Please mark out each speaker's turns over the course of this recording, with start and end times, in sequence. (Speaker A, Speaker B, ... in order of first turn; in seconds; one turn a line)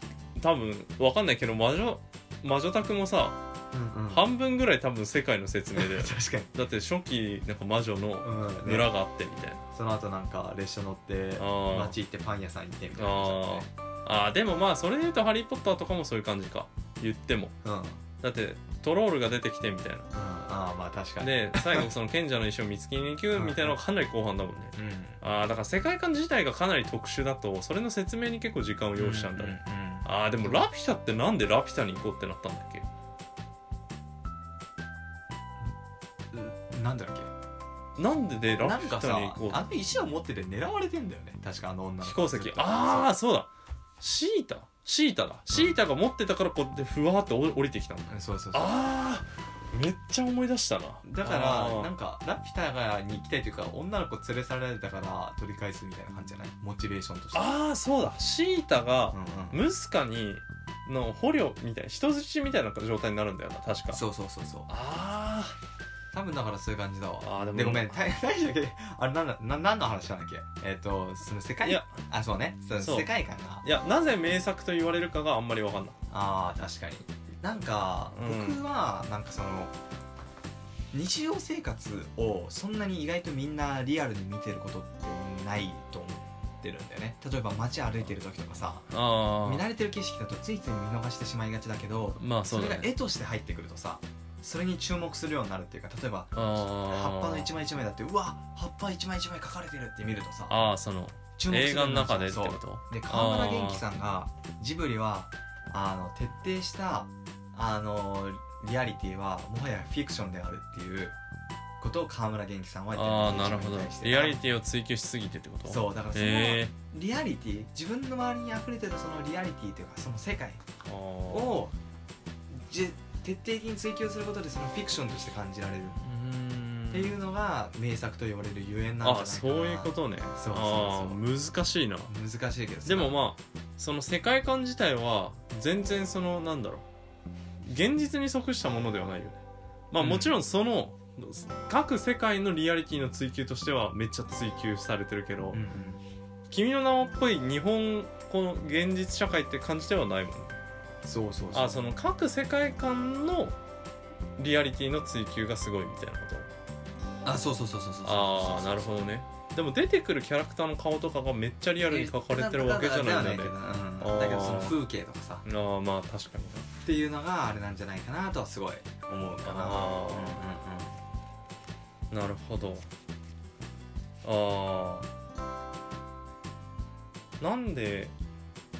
Speaker A: 0.3-3.4
Speaker B: 3.7-4.2
Speaker A: 4.1-9.6
Speaker B: 5.7-6.5
Speaker B: 8.2-8.9
Speaker B: 9.7-13.7
Speaker A: 11.4-11.9
Speaker A: 13.0-17.5
Speaker B: 17.6-18.0
Speaker A: 18.2-20.1
Speaker B: 20.1-21.9
Speaker A: 21.2-32.9
Speaker B: 23.3-23.8
Speaker B: 24.8-25.2
Speaker B: 28.9-30.6
Speaker B: 36.3-37.3
Speaker A: 38.0-39.6
Speaker B: 38.6-43.1
Speaker A: 42.0-43.5
Speaker A: 44.0-51.9
Speaker B: 48.1-48.7
Speaker B: 51.0-57.5
Speaker A: 57.3-64.0
Speaker B: 59.1-59.6
Speaker B: 63.9-64.7
Speaker A: 64.7-65.5
Speaker B: 66.1-73.6
Speaker A: 67.2-68.0
Speaker A: 71.6-71.9
Speaker A: 72.8-73.1
Speaker A: 73.6-76.0
Speaker B: 76.1-79.7
Speaker A: 78.1-78.6
Speaker B: 80.9-88.9
Speaker A: 88.9-89.6
Speaker B: 89.4-100.6
Speaker A: 92.2-92.9
Speaker A: 96.3-97.5
Speaker A: 100.5-103.8
Speaker B: 101.4-111.1
Speaker B: 111.8-114.4
Speaker A: 112.9-116.7
Speaker B: 115.7-120.6
Speaker A: 120.8-121.6
Speaker B: 121.3-121.7
Speaker B: 122.5-126.0
Speaker A: 126.0-127.2
Speaker B: 126.9-131.2
Speaker A: 129.0-132.1
Speaker B: 132.1-133.2
Speaker A: 132.8-136.8
Speaker A: 137.6-139.4
Speaker A: 139.9-145.6
Speaker B: 140.0-140.3
Speaker B: 145.5-146.0
Speaker A: 146.5-150.6
Speaker B: 151.0-151.9
Speaker A: 151.5-153.6
Speaker A: 154.4-156.5
Speaker B: 157.2-158.9
Speaker A: 158.0-164.8
Speaker B: 161.8-165.4
Speaker A: 165.4-166.7
Speaker B: 166.8-170.9
Speaker A: 169.4-170.4
Speaker A: 172.1-172.8
Speaker A: 174.2-175.1
Speaker A: 177.4-178.1